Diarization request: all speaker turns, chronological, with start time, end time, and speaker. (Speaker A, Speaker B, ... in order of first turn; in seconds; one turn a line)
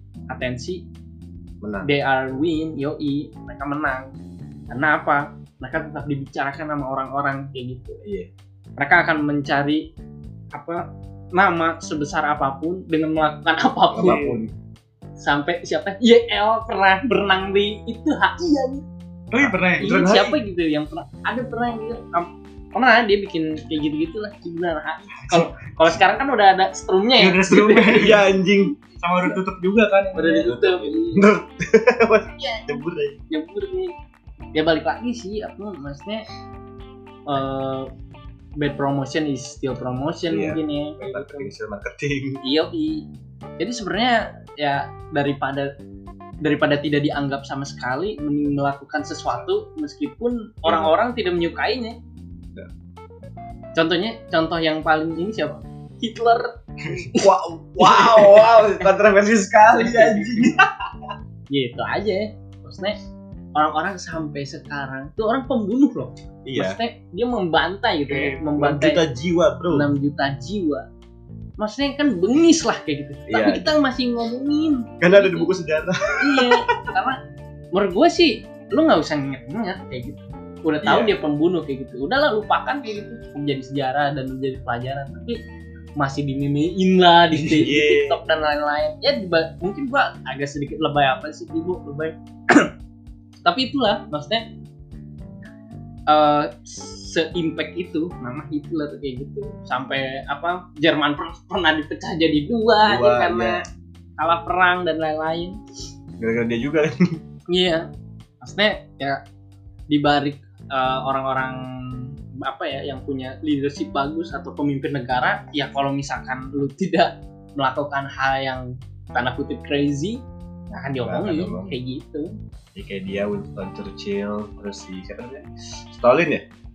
Speaker A: 0.3-0.8
Speaker B: 1.6-1.9
Speaker A: 1.8-4.1
Speaker A: 4.7-8.0
Speaker B: 8.0-8.3
Speaker A: 8.8-9.8
Speaker A: 10.5-10.8
Speaker A: 11.3-14.3
Speaker B: 13.9-14.5
Speaker C: 14.0-14.4
Speaker A: 15.2-18.9
Speaker C: 19.3-20.3
Speaker B: 19.3-20.3
Speaker A: 19.8-28.1
Speaker C: 25.2-25.6
Speaker C: 27.2-28.3
Speaker B: 27.9-28.7
Speaker C: 29.0-30.5
Speaker A: 30.1-31.3
Speaker B: 30.5-33.2
Speaker A: 32.4-33.9
Speaker A: 34.5-36.2
Speaker A: 37.3-37.9
Speaker A: 38.6-41.5
Speaker B: 40.3-42.4
Speaker A: 42.4-43.0
Speaker A: 43.6-45.7
Speaker A: 46.4-52.0
Speaker B: 50.6-50.9
Speaker A: 53.7-57.3
Speaker B: 57.1-60.6
Speaker A: 57.8-58.7
Speaker A: 59.8-60.4
Speaker A: 61.5-63.0
Speaker A: 63.5-69.0
Speaker B: 66.4-66.8
Speaker B: 68.2-69.9
Speaker A: 69.7-70.8
Speaker A: 71.6-75.5
Speaker B: 73.3-73.7
Speaker B: 75.0-76.6
Speaker A: 76.2-77.2
Speaker A: 77.7-85.4
Speaker B: 80.8-81.1
Speaker A: 86.0-92.7
Speaker B: 87.3-88.2
Speaker A: 93.4-94.5
Speaker A: 96.1-103.6
Speaker B: 102.8-103.6
Speaker A: 104.2-105.6
Speaker B: 106.2-107.2
Speaker A: 107.5-107.9
Speaker A: 108.4-109.2
Speaker A: 109.9-122.3
Speaker B: 121.0-121.7
Speaker B: 122.7-126.4